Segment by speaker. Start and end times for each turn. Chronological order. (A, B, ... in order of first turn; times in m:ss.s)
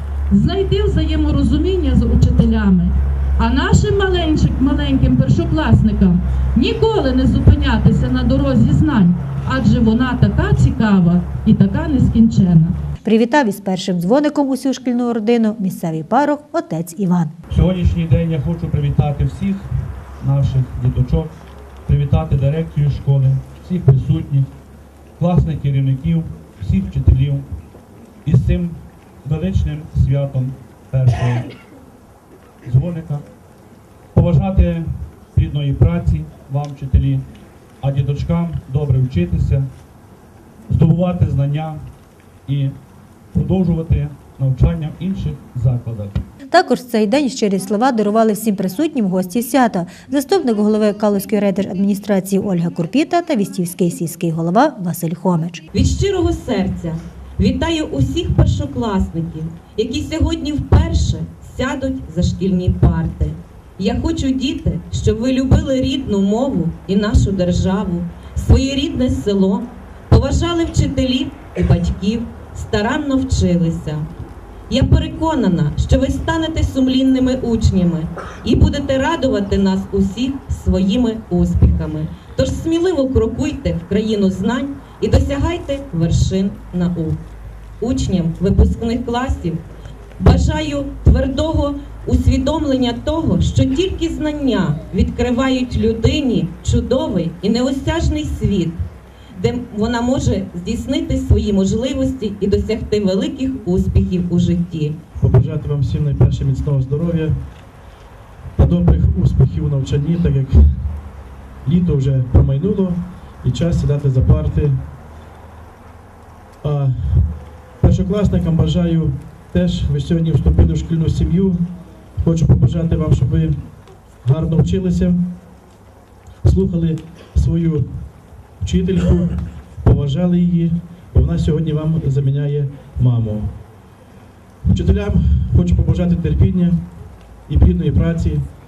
0:00.3-0:12.7 A
0:13.0-0:17.3 B
0:17.5-0:19.6 C
0:20.2-0:21.3 C
0:21.8-0:24.5 C
0:25.2-0:27.5 C
0:28.2-0:31.5 C
0:32.6-0:33.2 C
0:34.1-0:37.2 C
0:37.8-0:39.7 C
0:40.7-0:41.8 C
0:42.5-0:42.7 C
0:43.3-0:46.2 C
0:46.5-0:55.6 B
0:55.7-1:14.0 D
1:14.7-1:27.2 D
1:27.8-1:29.6 D
1:30.2-1:38.8 D
1:39.3-1:45.0 D
1:45.2-1:47.4 E
1:48.6-1:50.7 E
1:51.6-1:54.8 E
1:56.6-1:57.3 E
1:57.8-2:01.6 E
2:02.2-2:03.6 E
2:04.2-2:05.2 E
2:06.4-2:07.9 E
2:08.6-2:13.5 E
2:14.6-2:16.8 E
2:17.5-2:18.4 E